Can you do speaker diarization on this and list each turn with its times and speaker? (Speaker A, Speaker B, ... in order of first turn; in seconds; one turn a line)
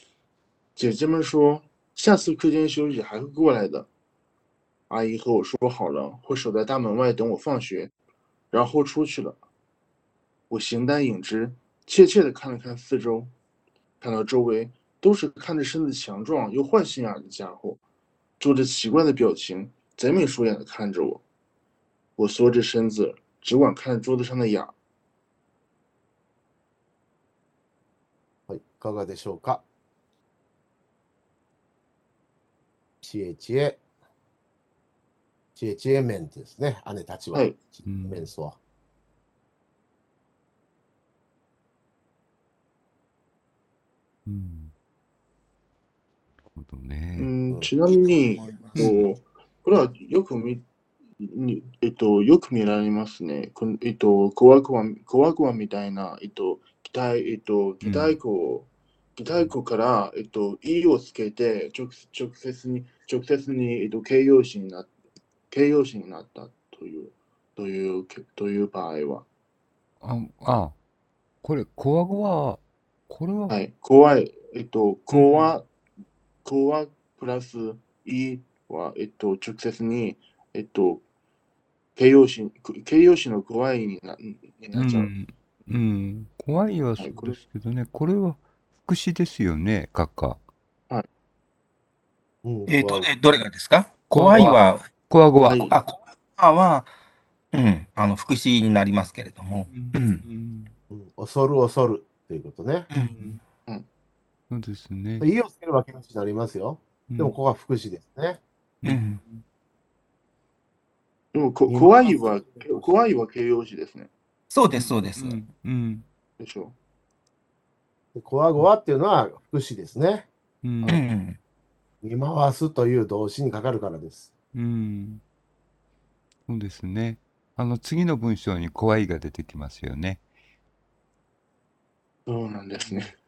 Speaker A: 0.8-3.9
Speaker A: 4.9-7.9
Speaker A: 8.5-9.4
Speaker A: 10.5-13.3
Speaker A: 14.0-17.8
Speaker A: 18.4-21.2
Speaker A: 22.2-24.7
Speaker B: 28.5-29.6
Speaker B: 33.0-33.8
Speaker B: 35.6-38.6
Speaker C: 37.9-38.3
Speaker C: 44.3-44.7
Speaker C: 46.5-47.3
Speaker A: 47.2-50.6
Speaker D: 47.9-48.9
Speaker C: 48.8-49.0
Speaker A: 51.2-64.9
Speaker C: 57.8-58.2
Speaker A: 65.5-69.3
Speaker C: 70.0-70.8
Speaker C: 71.4-73.6
Speaker A: 73.5-75.7
Speaker C: 75.1-75.5
Speaker A: 76.4-81.0
Speaker A: 82.0-85.1
Speaker C: 84.8-90.4
Speaker A: 87.0-87.4
Speaker B: 92.4-93.1
Speaker D: 92.7-94.9
Speaker C: 94.1-95.7
Speaker A: 95.5-95.8
Speaker D: 95.5-96.9
Speaker D: 97.5-100.2
Speaker C: 99.7-100.7
Speaker B: 100.9-102.9
Speaker D: 102.9-103.4
Speaker C: 104.5-105.3
Speaker B: 105.2-108.4
Speaker C: 107.1-107.4
Speaker C: 108.8-109.4
Speaker D: 108.8-109.2
Speaker A: 111.3-114.1
Speaker B: 111.7-112.8
Speaker D: 114.5-115.4
Speaker C: 114.8-116.0
Speaker A: 116.4-116.8
Speaker B: 118.2-120.3
Speaker C: 120.6-121.0
Speaker D: 120.9-121.4
Speaker B: 122.0-124.3
Speaker C: 124.5-125.2
Speaker C: 126.5-130.2
Speaker A: 132.3-133.1